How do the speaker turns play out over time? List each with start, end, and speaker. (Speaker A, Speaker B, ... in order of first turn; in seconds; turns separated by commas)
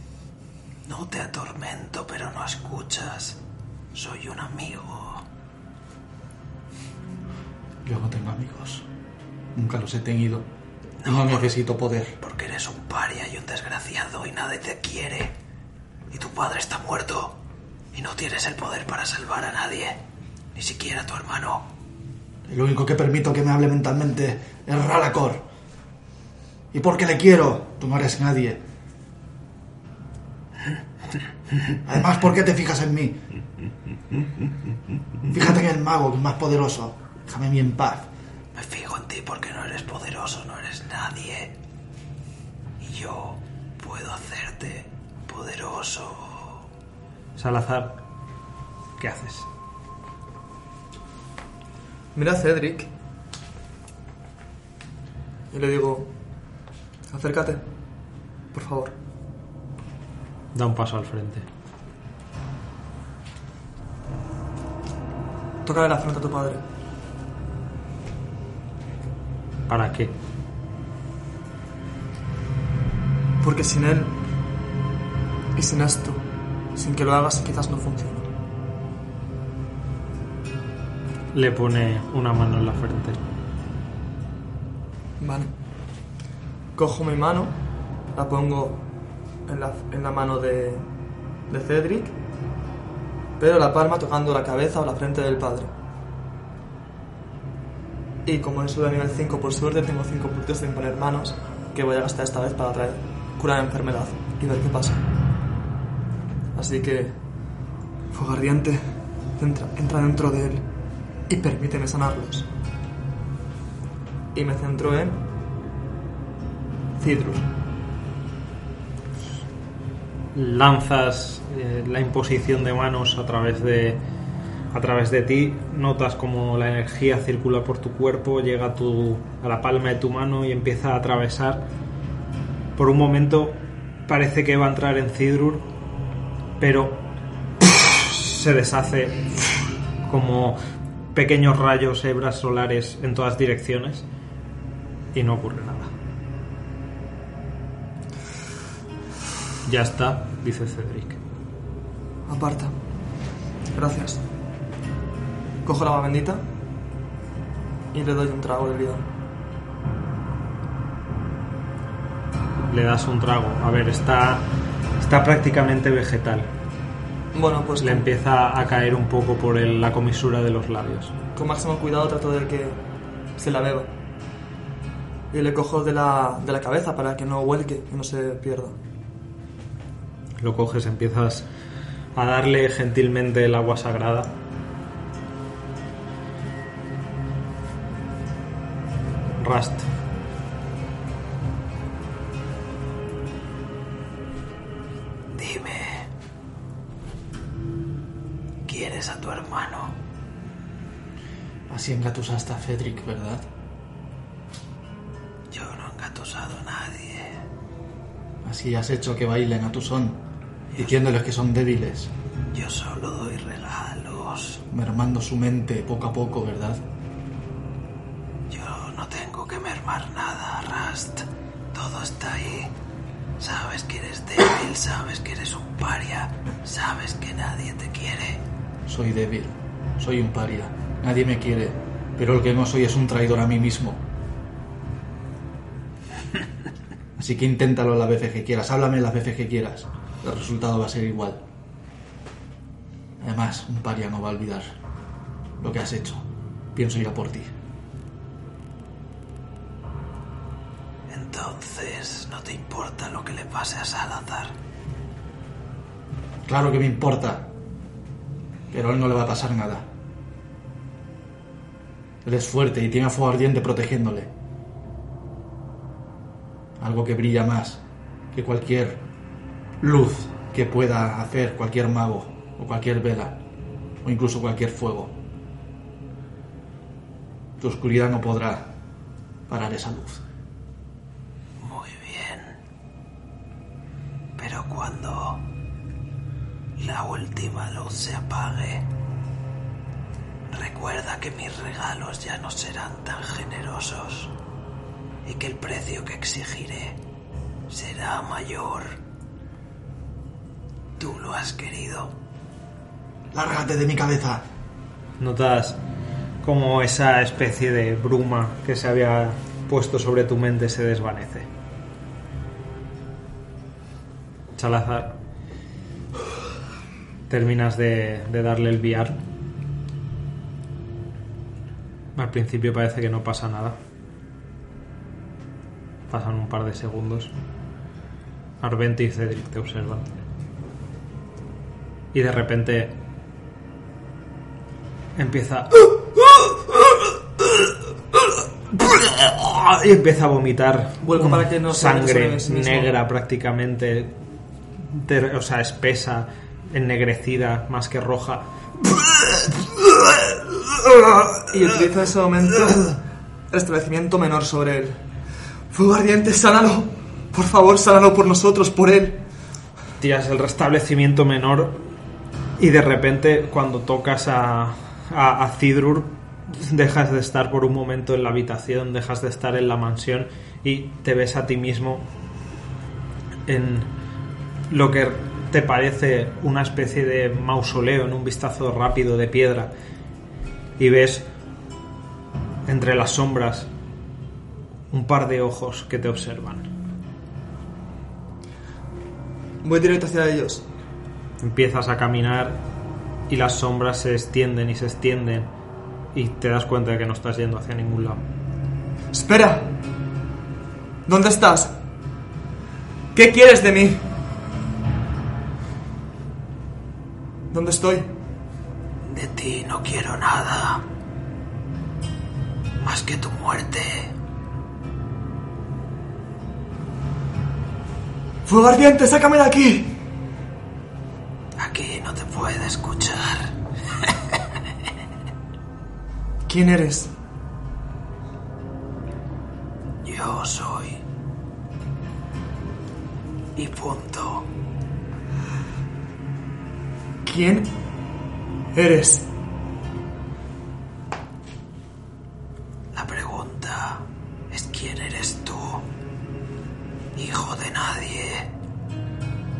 Speaker A: 0.8-3.4, Speaker A: 3.9-5.2, Speaker B: 7.8-8.8, Speaker B: 9.5-10.5, Speaker A: 11.0-11.5, Speaker B: 11.0-12.2, Speaker A: 12.2-15.3, Speaker A: 16.1-17.4, Speaker A: 17.9-20.0, Speaker A: 20.5-21.7, Speaker B: 22.5-25.4, Speaker B: 26.7-28.6, Speaker B: 31.8-33.2, Speaker B: 35.3-38.1, Speaker A: 38.5-41.5, Speaker A: 42.8-46.6, Speaker C: 47.4-48.0, Speaker C: 49.0-49.5, Speaker D: 52.1-52.9, Speaker D: 55.5-56.1, Speaker D: 57.1-57.6, Speaker D: 58.5-58.9, Speaker C: 60.5-61.5, Speaker D: 65.6-66.6, Speaker C: 69.7-70.1, Speaker D: 73.4-74.2, Speaker D: 75.5-78.3, Speaker C: 81.3-83.2, Speaker D: 85.2-85.5, Speaker D: 86.8-87.6, Speaker D: 88.1-88.8, Speaker D: 89.5-90.9, Speaker D: 91.5-92.2, Speaker D: 93.4-95.7, Speaker D: 98.2-105.0, Speaker D: 106.5-107.2, Speaker D: 108.1-108.8, Speaker D: 109.4-110.7, Speaker D: 111.3-112.5, Speaker D: 114.3-115.2, Speaker D: 117.0-117.5, Speaker C: 120.3-124.0, Speaker C: 124.7-131.7, Speaker C: 132.8-135.7, Speaker C: 136.6-137.1, Speaker C: 137.6-139.4, Speaker C: 140.0-140.6, Speaker C: 141.1-144.1, Speaker C: 145.1-145.9, Speaker C: 149.6-151.2, Speaker D: 152.3-152.7, Speaker D: 153.7-154.2, Speaker D: 155.6-156.4, Speaker D: 157.9-159.1, Speaker C: 162.6-166.5, Speaker D: 167.3-168.1, Speaker C: 167.8-171.1, Speaker D: 171.3-172.8, Speaker D: 173.4-173.9, Speaker D: 175.3-178.8, Speaker C: 180.4-181.5, Speaker C: 182.1-184.3, Speaker C: 189.4-189.9, Speaker A: 195.3-196.1, Speaker A: 198.7-200.0, Speaker B: 201.7-203.4, Speaker A: 205.5-207.4, Speaker B: 208.4-210.2, Speaker B: 210.8-212.1, Speaker A: 212.5-214.6, Speaker B: 214.7-216.8, Speaker A: 218.5-222.7, Speaker A: 223.4-228.4, Speaker B: 228.8-234.0, Speaker B: 237.2-241.4, Speaker B: 243.2-244.7, Speaker B: 245.6-246.2, Speaker B: 246.7-247.5, Speaker A: 251.1-254.5, Speaker B: 256.4-257.5, Speaker B: 258.7-259.9, Speaker B: 262.2-264.3, Speaker B: 266.8-267.8, Speaker B: 268.3-269.0, Speaker B: 269.8-273.4, Speaker B: 274.0-275.1, Speaker B: 277.6-278.7, Speaker B: 279.5-280.2, Speaker A: 281.6-282.6, Speaker A: 284.4-285.4, Speaker A: 286.8-288.9, Speaker A: 290.5-294.3, Speaker A: 295.2-297.0, Speaker A: 297.7-298.9, Speaker A: 301.0-302.1, Speaker B: 303.3-304.4, Speaker C: 305.2-305.8, Speaker C: 306.4-311.5, Speaker C: 314.5-315.2, Speaker C: 317.3-319.2, Speaker C: 322.1-323.8, Speaker C: 326.1-327.3, Speaker C: 328.6-330.1, Speaker C: 332.1-333.0, Speaker C: 335.1-344.2, Speaker D: 341.0-342.9, Speaker C: 344.8-349.8, Speaker C: 351.0-351.3, Speaker D: 351.5-355.0, Speaker D: 355.7-359.2, Speaker C: 360.0-361.9, Speaker C: 362.6-372.1, Speaker C: 373.5-373.9, Speaker C: 374.7-379.7, Speaker C: 380.8-381.3, Speaker C: 382.6-383.7, Speaker C: 384.9-386.7, Speaker D: 389.6-390.6, Speaker C: 391.4-392.6, Speaker C: 393.3-395.5, Speaker C: 396.1-398.2, Speaker D: 399.1-399.8, Speaker D: 401.1-401.7, Speaker D: 403.1-404.1, Speaker D: 407.5-408.1, Speaker A: 409.0-410.8, Speaker A: 412.8-414.1, Speaker D: 418.4-420.0, Speaker A: 421.6-424.4, Speaker D: 426.5-427.1, Speaker A: 430.0-431.0, Speaker A: 433.6-434.5, Speaker D: 437.2-437.8, Speaker D: 438.7-439.3, Speaker A: 442.9-445.9, Speaker A: 447.1-448.5